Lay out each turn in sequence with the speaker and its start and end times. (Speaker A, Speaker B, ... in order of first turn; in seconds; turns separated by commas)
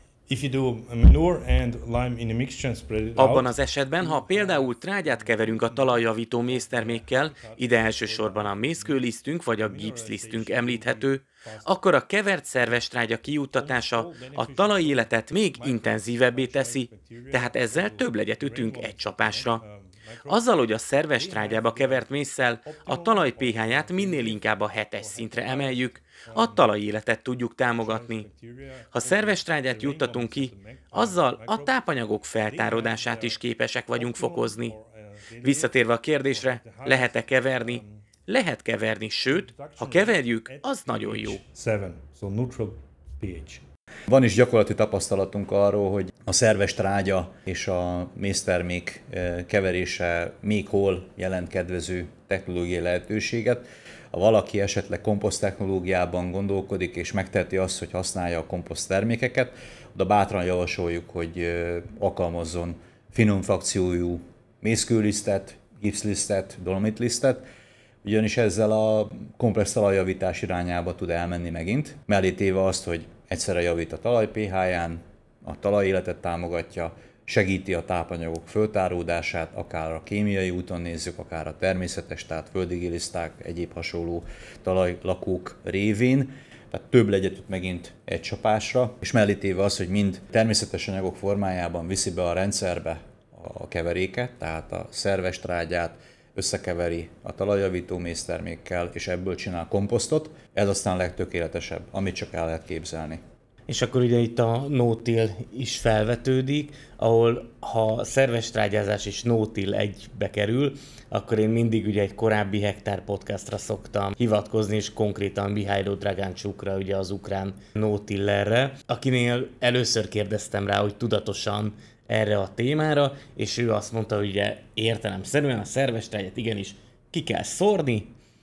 Speaker A: 0.3-9.1, Speaker B: 3.2-19.6, Speaker A: 9.6-11.7, Speaker A: 13.6-20.5, Speaker B: 20.3-28.3, Speaker A: 21.2-22.1, Speaker A: 22.6-26.7, Speaker A: 27.7-31.8, Speaker B: 28.9-34.7, Speaker A: 32.4-33.4, Speaker A: 34.0-38.0, Speaker B: 35.4-41.4, Speaker A: 39.3-43.6, Speaker C: 44.1-67.5, Speaker C: 68.0-103.2, Speaker B: 103.7-128.1